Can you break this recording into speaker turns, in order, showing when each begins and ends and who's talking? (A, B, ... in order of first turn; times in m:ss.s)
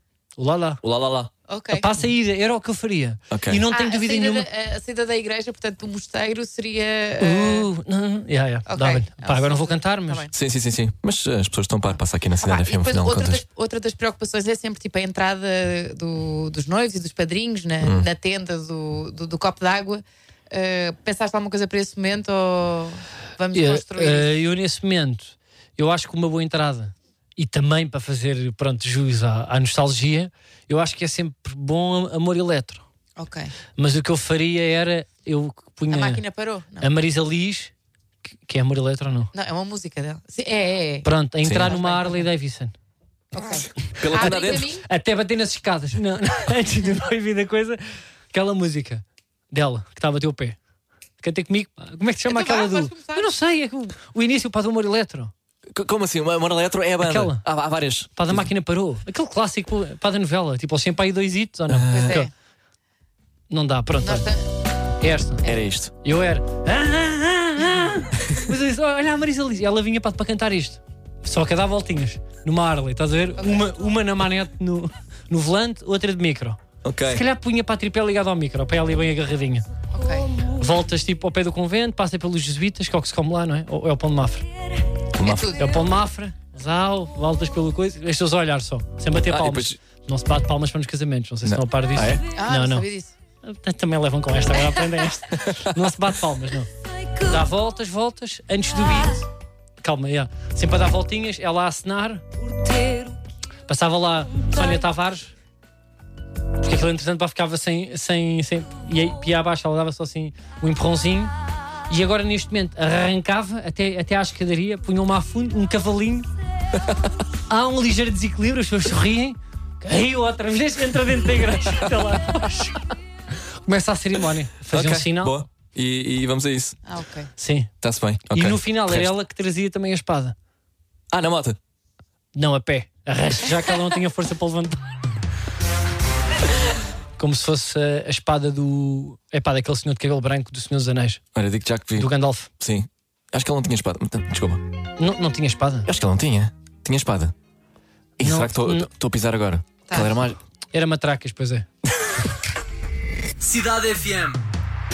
0:00.4-0:00.8 A
0:00.8-0:01.3 B
0:01.5-0:01.9 C
0:01.7-0:04.5 A
0:03.3-0:03.6 B
0:03.7-0:07.7 C
0:07.2-0:10.3 A
0:08.7-0:10.3 C
0:10.3-0:13.4 B
0:12.4-0:24.4 C
0:17.8-0:18.1 B
0:23.5-0:32.8 A
0:33.2-0:33.5 C
0:33.8-0:36.2 A
0:35.9-0:36.9 C
0:36.8-0:37.7 A
0:38.5-0:39.3 A
0:39.3-0:41.1 C
0:41.0-0:42.7 A
0:41.4-0:41.8 B
0:41.6-0:42.3 C
0:43.3-0:44.8 C
0:44.0-0:44.8 B
0:44.1-0:47.8 A
0:48.3-0:50.6 A
0:51.2-0:55.3 A
0:52.3-0:53.3 C
0:55.7-0:58.5 B
0:57.0-0:57.4 A
0:58.2-1:02.3 A
1:01.7-1:02.2 B
1:01.9-1:02.3 C
1:03.5-1:04.3 A
1:04.0-1:04.4 C
1:05.0-1:05.5 A
1:05.4-1:05.9 B
1:06.0-1:19.7 A
1:13.4-1:13.7 C
1:16.8-1:17.2 B
1:19.9-1:20.3 C
1:20.5-1:24.5 A
1:25.2-1:25.6 B
1:25.2-1:25.8 C
1:25.6-1:32.9 A
1:29.1-1:29.8 B
1:31.4-1:32.2 B
1:32.3-1:33.1 C
1:33.4-1:36.7 A
1:35.4-1:35.8 B
1:37.2-1:39.3 A
1:39.8-1:42.3 A
1:43.7-1:45.3 A
1:46.6-1:51.3 A
1:51.9-1:56.3 A
1:56.8-1:57.1 B
1:57.5-2:02.9 A
2:03.7-2:05.4 A
2:04.7-2:06.8 B
2:06.8-2:07.3 C
2:07.4-2:07.7 A
2:07.8-2:09.1 B
2:08.3-2:10.4 A
2:11.1-2:11.6 B
2:12.4-2:14.8 A
2:17.2-2:21.2 A
2:21.4-2:24.6 B
2:22.0-2:22.5 A
2:25.0-2:25.9 A
2:25.9-2:27.3 B
2:28.2-2:30.4 B
2:28.2-2:28.9 A
2:29.9-2:30.2 C
2:30.7-2:31.7 A
2:33.4-2:34.4 B